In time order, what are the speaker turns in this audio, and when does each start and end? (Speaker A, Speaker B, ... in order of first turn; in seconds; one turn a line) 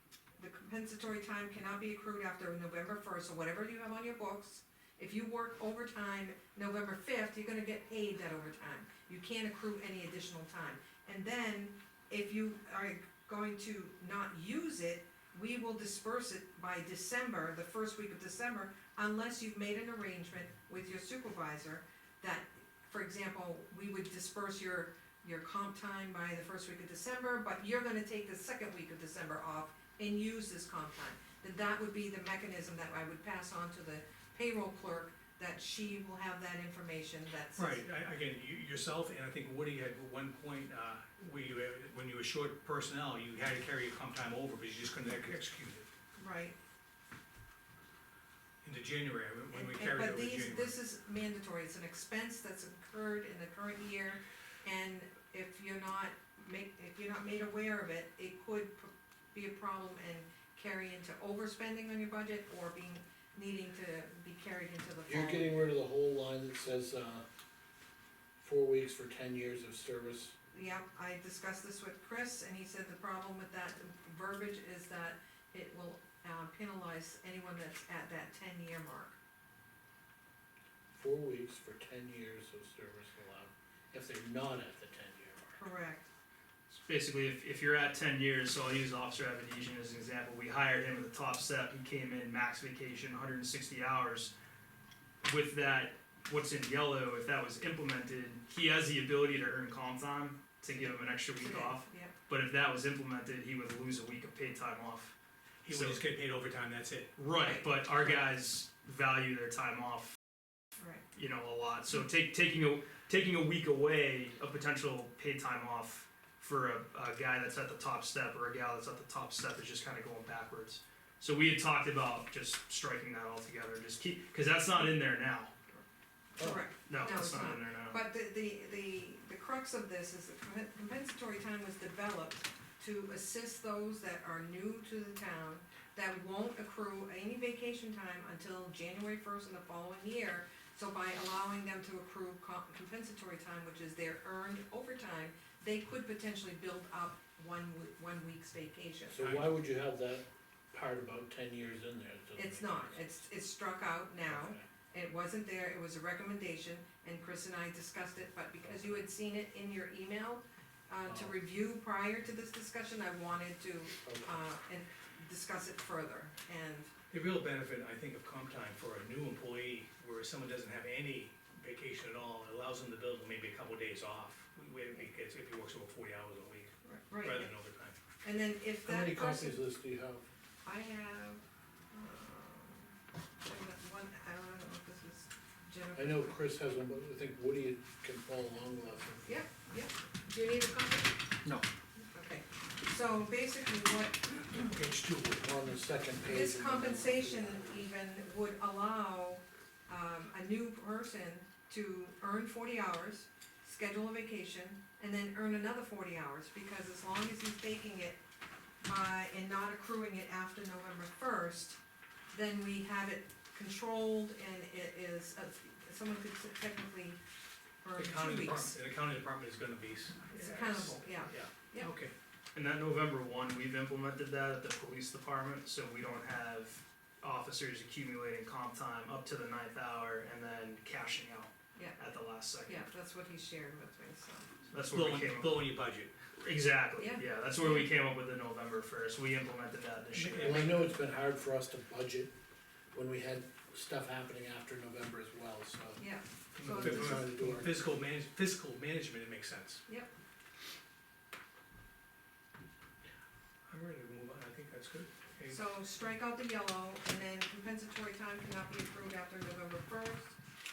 Speaker A: 0.4-37.8
Speaker B: 37.5-45.9
Speaker A: 46.1-46.5
Speaker B: 48.6-50.7
Speaker A: 49.5-65.5
Speaker C: 65.1-67.2
Speaker C: 68.4-70.3
Speaker A: 70.5-79.2
Speaker C: 80.9-85.6
Speaker A: 85.6-86.1
Speaker D: 86.7-94.3
Speaker D: 95.2-105.1
Speaker A: 101.4-102.1
Speaker B: 105.6-107.1
Speaker D: 105.7-106.0
Speaker D: 107.2-110.2
Speaker A: 107.4-107.7
Speaker D: 111.1-125.5
Speaker C: 126.4-126.7
Speaker A: 126.4-149.2
Speaker D: 126.9-128.0
Speaker C: 149.1-153.2
Speaker B: 149.2-149.5
Speaker A: 152.3-166.9
Speaker C: 154.3-154.6
Speaker C: 158.6-159.0
Speaker C: 161.1-161.3
Speaker C: 164.0-164.4
Speaker B: 167.1-177.9
Speaker A: 176.8-177.5
Speaker A: 178.2-179.6
Speaker C: 178.8-180.2
Speaker A: 180.6-186.4
Speaker C: 185.9-189.4
Speaker A: 189.2-191.2
Speaker A: 191.9-194.8
Speaker B: 194.5-195.5
Speaker C: 195.4-197.9
Speaker A: 196.2-208.2
Speaker A: 208.8-211.8
Speaker A: 212.3-217.2
Speaker A: 217.8-218.8
Speaker B: 217.9-222.1
Speaker A: 220.3-221.9
Speaker D: 222.5-232.8
Speaker A: 231.7-232.1
Speaker A: 232.7-234.6
Speaker D: 234.7-235.8
Speaker B: 234.9-236.1
Speaker D: 236.3-240.8
Speaker A: 237.0-237.9
Speaker B: 240.1-240.9
Speaker C: 240.4-242.3
Speaker C: 242.9-246.0
Speaker A: 246.0-247.3
Speaker B: 246.5-249.8
Speaker C: 246.6-247.9
Speaker B: 253.7-255.6
Speaker A: 255.5-260.4